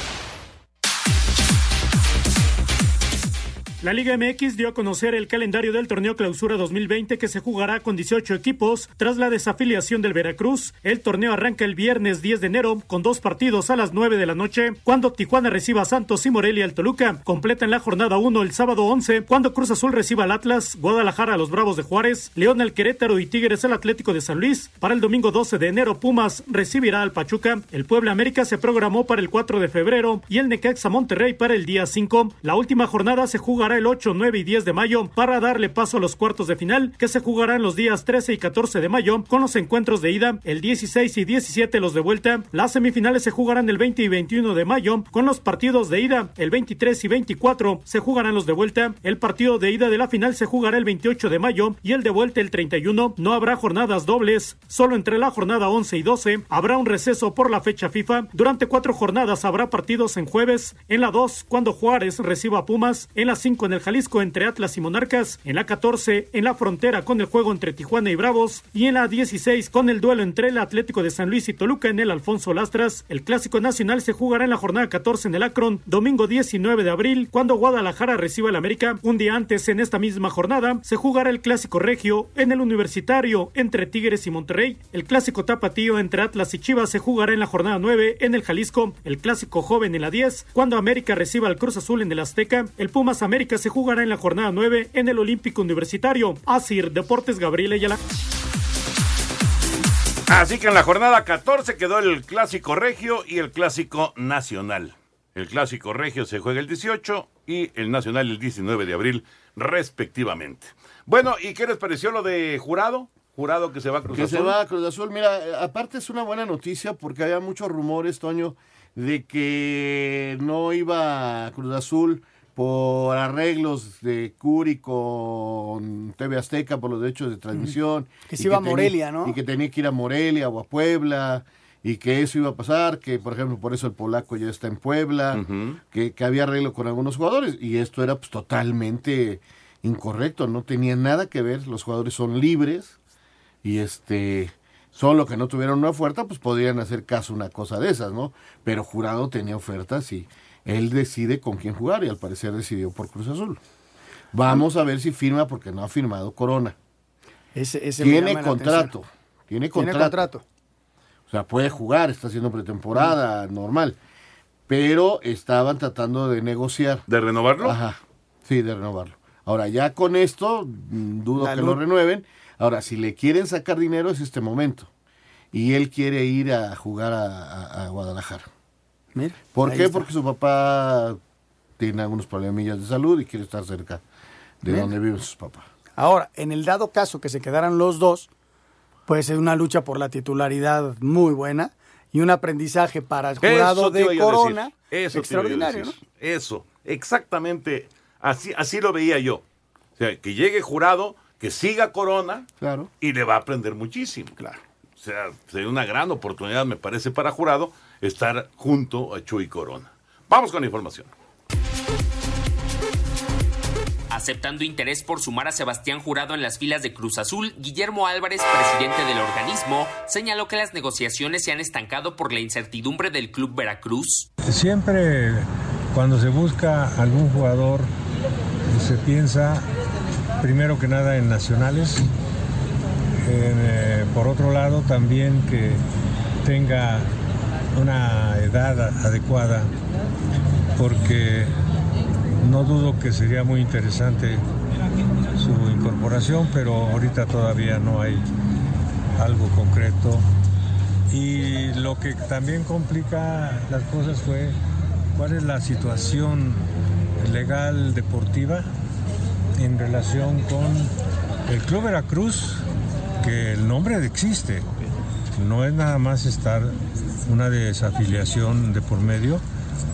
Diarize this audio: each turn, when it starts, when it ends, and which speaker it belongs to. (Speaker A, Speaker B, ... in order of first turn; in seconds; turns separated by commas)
Speaker A: 3.8-98.0, Speaker B: 100.3-114.6, Speaker C: 114.1-143.0, Speaker D: 128.3-129.4, Speaker B: 135.3-135.8, Speaker C: 143.6-153.6, Speaker C: 154.3-156.8, Speaker D: 157.6-158.9, Speaker C: 158.0-160.2, Speaker D: 159.7-160.4, Speaker C: 161.3-164.0, Speaker C: 164.7-167.1, Speaker B: 167.1-167.8, Speaker C: 167.6-174.9, Speaker D: 171.4-171.8, Speaker C: 175.5-178.5, Speaker D: 179.1-180.1, Speaker C: 179.5-181.2, Speaker C: 181.8-184.0, Speaker C: 184.6-185.7, Speaker D: 186.0-188.3, Speaker D: 189.1-195.9, Speaker B: 193.4-199.4, Speaker B: 200.0-202.5, Speaker C: 202.6-202.9, Speaker B: 203.0-204.4, Speaker B: 205.0-211.1, Speaker E: 214.1-224.3, Speaker F: 224.5-227.9, Speaker F: 228.7-229.7, Speaker F: 230.4-232.1, Speaker F: 233.2-235.8, Speaker F: 236.4-237.1, Speaker F: 237.8-239.7, Speaker F: 240.8-241.5, Speaker F: 242.4-244.4, Speaker F: 245.3-248.2, Speaker F: 249.2-250.2, Speaker F: 251.1-254.6, Speaker F: 255.1-256.6, Speaker F: 257.2-258.7, Speaker F: 259.6-260.9, Speaker F: 261.5-262.6, Speaker F: 263.2-264.6, Speaker F: 265.4-269.4